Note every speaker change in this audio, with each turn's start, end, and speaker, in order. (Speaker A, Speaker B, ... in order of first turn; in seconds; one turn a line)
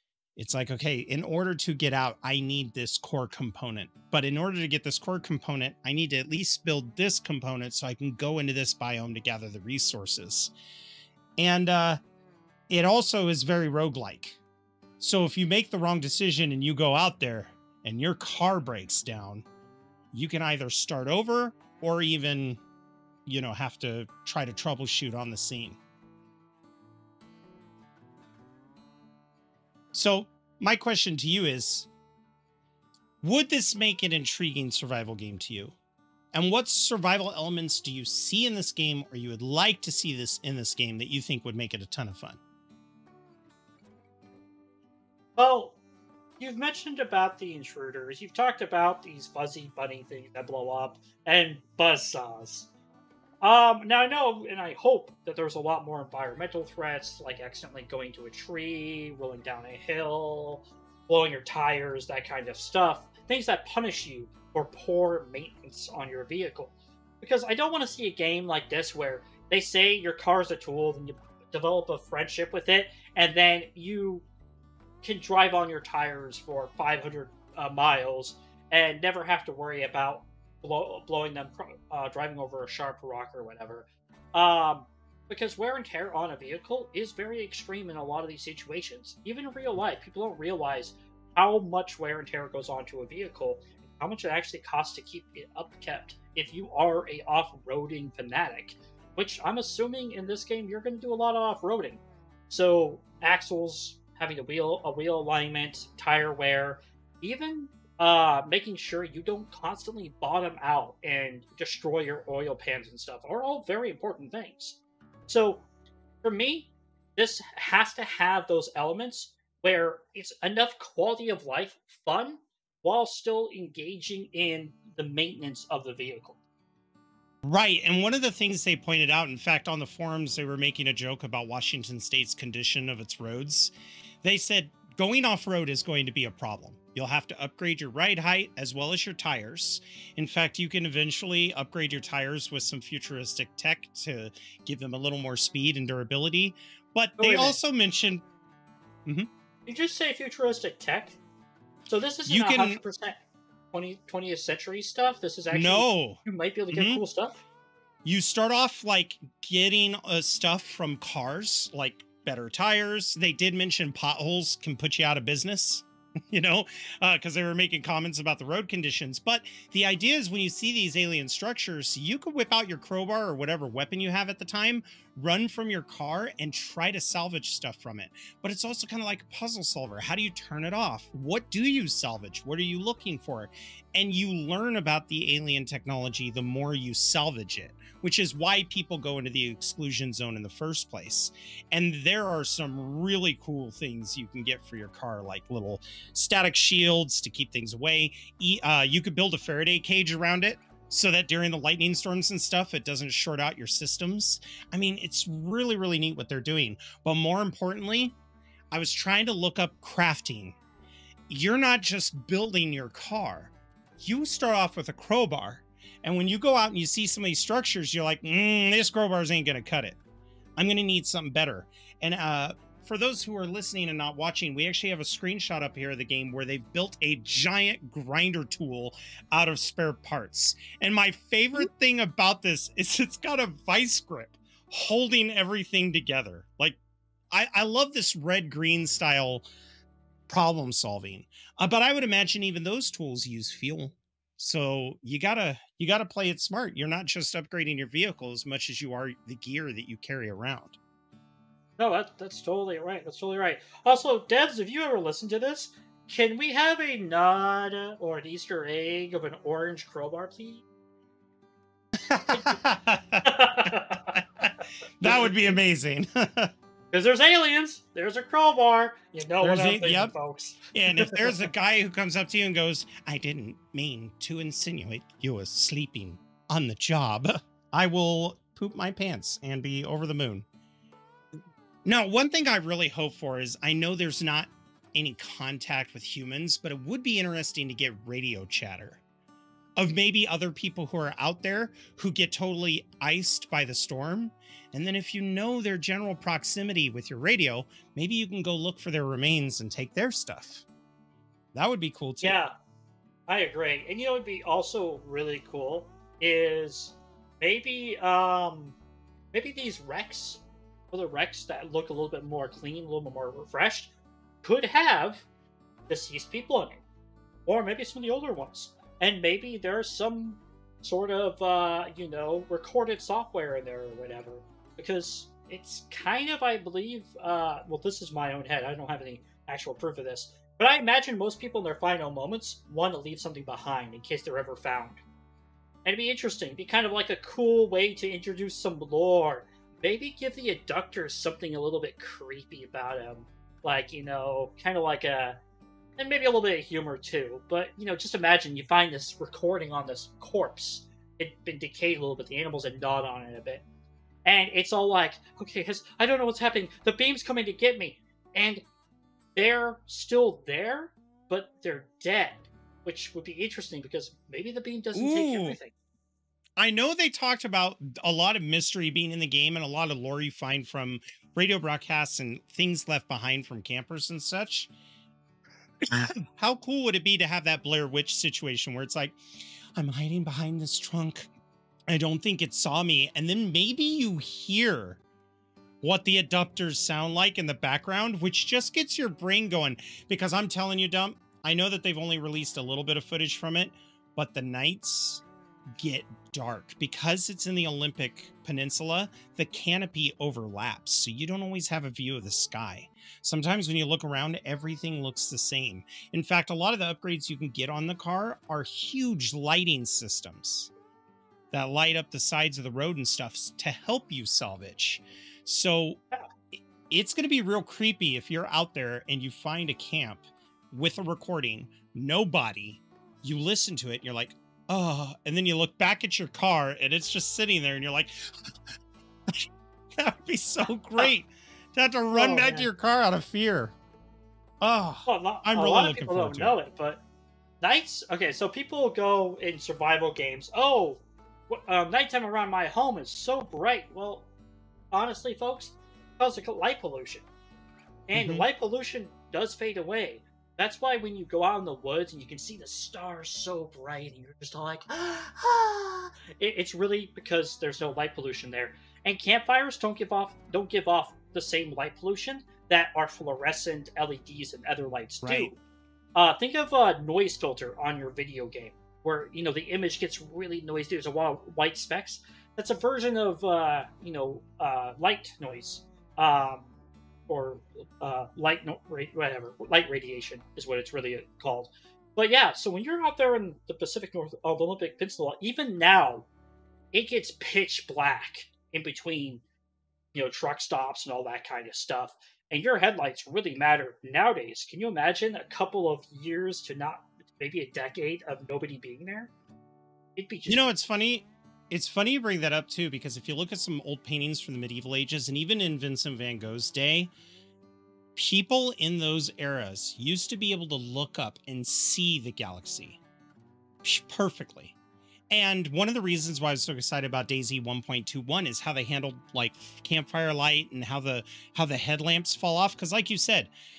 Speaker A: 0.4-10.5
Speaker A: 11.4-12.0
Speaker A: 12.7-14.4
Speaker A: 15.0-19.4
Speaker A: 20.1-22.6
Speaker A: 23.2-25.8
Speaker A: 29.9-31.9
Speaker A: 33.2-35.7
Speaker A: 36.3-42.4
Speaker B: 45.4-45.8
Speaker B: 46.4-52.7
Speaker B: 53.4-74.2
Speaker B: 75.0-115.6
Speaker B: 116.2-126.4
Speaker A: 127.4-133.7
Speaker A: 134.2-148.2
Speaker B: 147.2-147.6
Speaker B: 149.7-151.2
Speaker B: 151.9-153.2
Speaker A: 152.3-152.8
Speaker B: 153.7-157.4
Speaker A: 155.5-157.0
Speaker A: 158.0-208.1
Speaker A: 208.7-210.6
Speaker A: 211.3-220.0
Speaker A: 220.6-236.8
Speaker A: 237.3-239.4
Speaker A: 240.3-250.8
Speaker B: 251.8-260.6
Speaker A: 262.1-266.5
Speaker B: 262.3-262.6
Speaker B: 263.2-264.2
Speaker B: 265.1-265.3
Speaker B: 266.9-271.5
Speaker A: 269.4-270.1
Speaker A: 270.7-280.4
Speaker A: 281.8-289.0
Speaker A: 289.8-300.6
Speaker A: 301.5-302.4
Speaker B: 302.2-302.5
Speaker B: 303.3-308.8
Speaker B: 309.3-315.2
Speaker B: 315.9-316.8
Speaker B: 317.4-335.0
Speaker B: 335.8-345.4
Speaker B: 346.0-353.6
Speaker B: 354.2-358.6
Speaker B: 359.3-365.7
Speaker A: 364.9-365.6
Speaker A: 366.6-374.7
Speaker A: 375.9-379.1
Speaker A: 379.8-381.3
Speaker A: 381.9-385.0
Speaker A: 385.8-395.2
Speaker A: 395.8-410.7
Speaker A: 411.5-416.0
Speaker A: 416.9-428.5
Speaker A: 430.0-433.7
Speaker B: 432.1-432.7
Speaker A: 434.6-436.6
Speaker B: 435.1-437.0
Speaker B: 437.6-444.3
Speaker B: 444.9-447.2
Speaker B: 448.1-465.6
Speaker A: 448.1-448.4
Speaker A: 465.2-465.5
Speaker B: 466.1-476.7
Speaker B: 477.3-486.3
Speaker B: 486.9-489.4
Speaker B: 490.1-499.3
Speaker B: 500.1-500.7
Speaker A: 500.5-507.1
Speaker A: 508.1-513.0
Speaker A: 513.8-514.7
Speaker A: 515.3-523.5